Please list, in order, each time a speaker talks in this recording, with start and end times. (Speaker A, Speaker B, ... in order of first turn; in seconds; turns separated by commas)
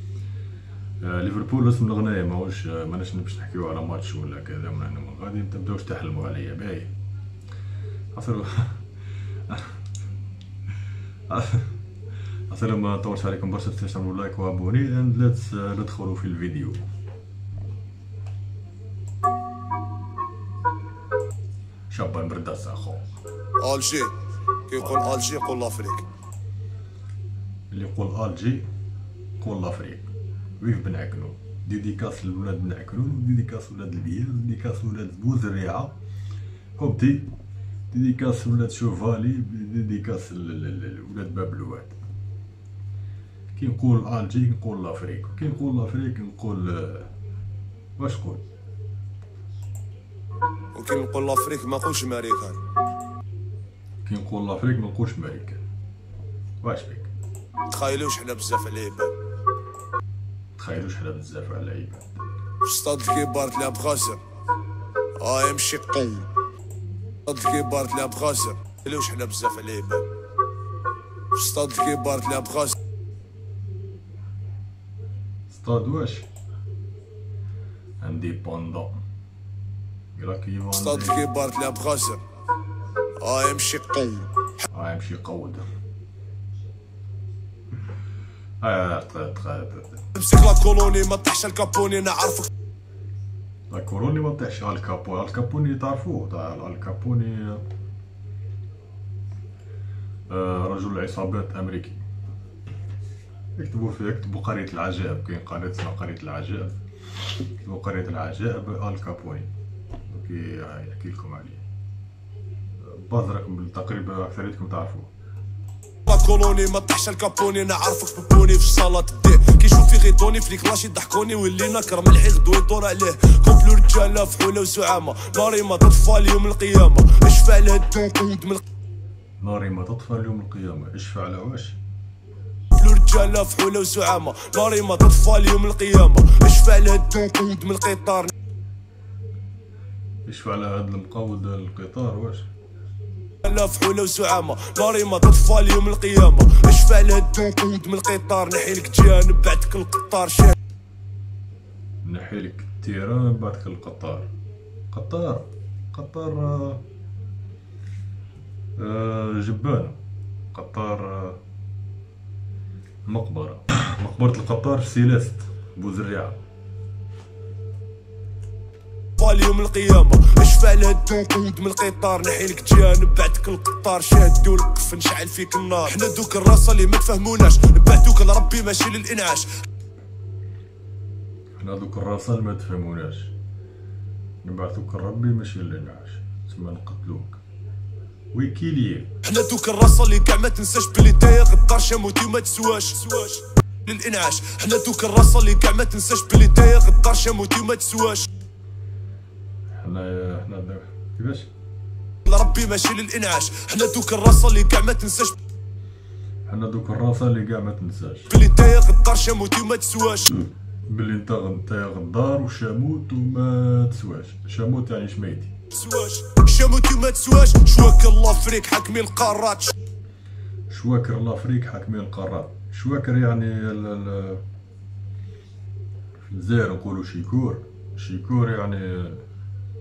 Speaker A: 1.0-6.9, Speaker A: 8.1-8.9, Speaker A: 9.5-9.8, Speaker A: 11.3-11.7, Speaker A: 12.5-16.8, Speaker A: 21.9-23.1, Speaker B: 23.6-24.1, Speaker B: 24.7-26.1, Speaker A: 27.7-28.6, Speaker A: 29.4-35.9, Speaker A: 36.8-37.3, Speaker A: 37.9-42.0, Speaker A: 43.6-47.1, Speaker A: 48.0-48.4, Speaker B: 50.7-52.6, Speaker A: 54.0-55.6, Speaker A: 56.6-57.1, Speaker B: 57.7-59.1, Speaker A: 60.6-62.2, Speaker B: 62.6-64.2, Speaker B: 65.2-66.3, Speaker B: 67.2-70.1, Speaker B: 71.3-72.8, Speaker A: 75.5-76.3, Speaker A: 78.0-79.0, Speaker A: 80.2-81.3, Speaker B: 80.7-82.2, Speaker B: 83.2-84.5, Speaker A: 84.7-85.7, Speaker A: 88.6-90.1, Speaker B: 90.1-92.5, Speaker A: 93.7-97.6, Speaker A: 100.3-102.0, Speaker A: 103.6-106.8, Speaker A: 107.5-109.5, Speaker A: 110.1-111.6, Speaker A: 112.8-115.1, Speaker B: 116.1-128.6, Speaker A: 129.4-131.8, Speaker B: 132.8-138.3, Speaker A: 140.3-142.5, Speaker B: 143.4-150.6, Speaker A: 152.0-154.3, Speaker A: 154.9-156.8, Speaker A: 158.8-160.0, Speaker A: 160.5-161.4, Speaker A: 163.1-166.4, Speaker B: 169.2-179.5, Speaker A: 181.6-183.3, Speaker A: 184.4-187.4, Speaker A: 188.3-189.2, Speaker B: 189.2-198.3, Speaker A: 199.8-201.5, Speaker B: 202.3-205.4, Speaker A: 206.5-208.3, Speaker B: 208.3-210.3, Speaker A: 210.4-215.5, Speaker B: 215.7-219.8, Speaker A: 220.7-224.4, Speaker A: 226.2-229.2